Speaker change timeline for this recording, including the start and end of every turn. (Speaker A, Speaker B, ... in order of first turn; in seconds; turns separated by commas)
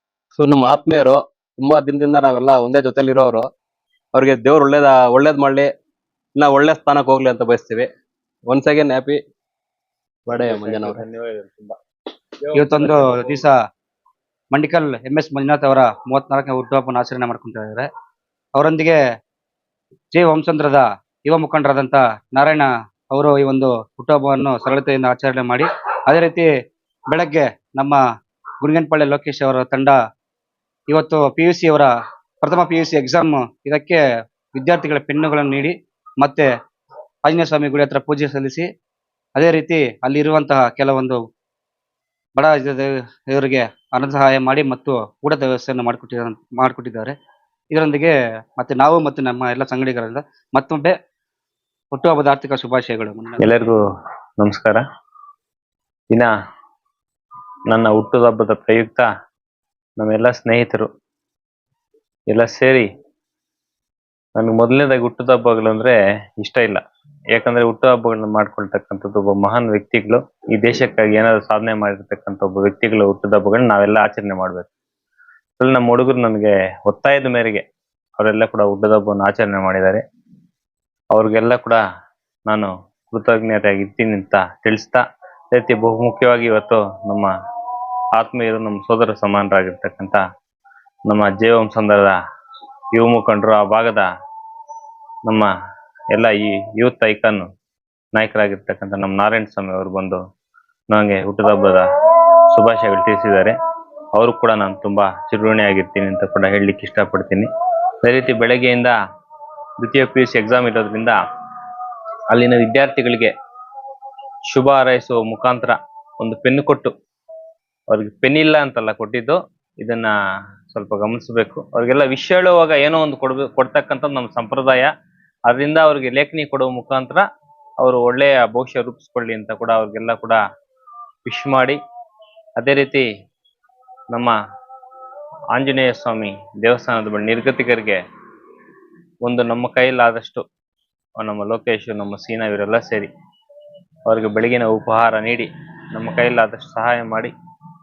Speaker A: 0.4-3.5, Speaker A: 4.1-5.7, Speaker A: 6.4-7.9, Speaker A: 8.5-9.2, Speaker A: 10.3-11.0, Speaker B: 10.3-11.8, Speaker C: 12.5-13.5, Speaker B: 12.6-13.4, Speaker C: 14.5-17.9, Speaker C: 18.6-19.0, Speaker C: 20.1-26.5, Speaker C: 27.1-28.0, Speaker C: 28.6-30.0, Speaker C: 30.9-31.9, Speaker C: 32.4-34.0, Speaker C: 34.6-36.5, Speaker C: 37.2-38.7, Speaker C: 39.4-41.2, Speaker C: 42.4-47.1, Speaker C: 47.7-50.9, Speaker C: 51.9-53.5, Speaker B: 53.4-53.8, Speaker B: 54.4-54.8, Speaker B: 57.7-59.1, Speaker B: 60.0-60.9, Speaker B: 62.3-62.9, Speaker B: 64.4-66.8, Speaker B: 67.3-74.7, Speaker B: 75.6-77.6, Speaker B: 78.2-80.0, Speaker B: 81.1-81.8, Speaker B: 82.5-87.3, Speaker B: 88.2-90.2, Speaker B: 91.1-92.2, Speaker B: 92.9-94.1, Speaker B: 96.1-97.5, Speaker B: 98.2-100.2, Speaker B: 100.9-101.9, Speaker B: 102.5-103.5, Speaker B: 104.1-107.5, Speaker B: 108.0-109.0, Speaker B: 109.8-111.2, Speaker B: 112.3-113.3, Speaker B: 114.5-116.9, Speaker B: 117.9-120.1, Speaker B: 120.7-124.9, Speaker B: 125.5-127.2, Speaker B: 127.8-130.4, Speaker B: 131.3-131.8, Speaker B: 132.6-133.1, Speaker B: 135.5-138.0, Speaker B: 139.2-140.4, Speaker B: 141.2-143.1, Speaker B: 144.1-147.3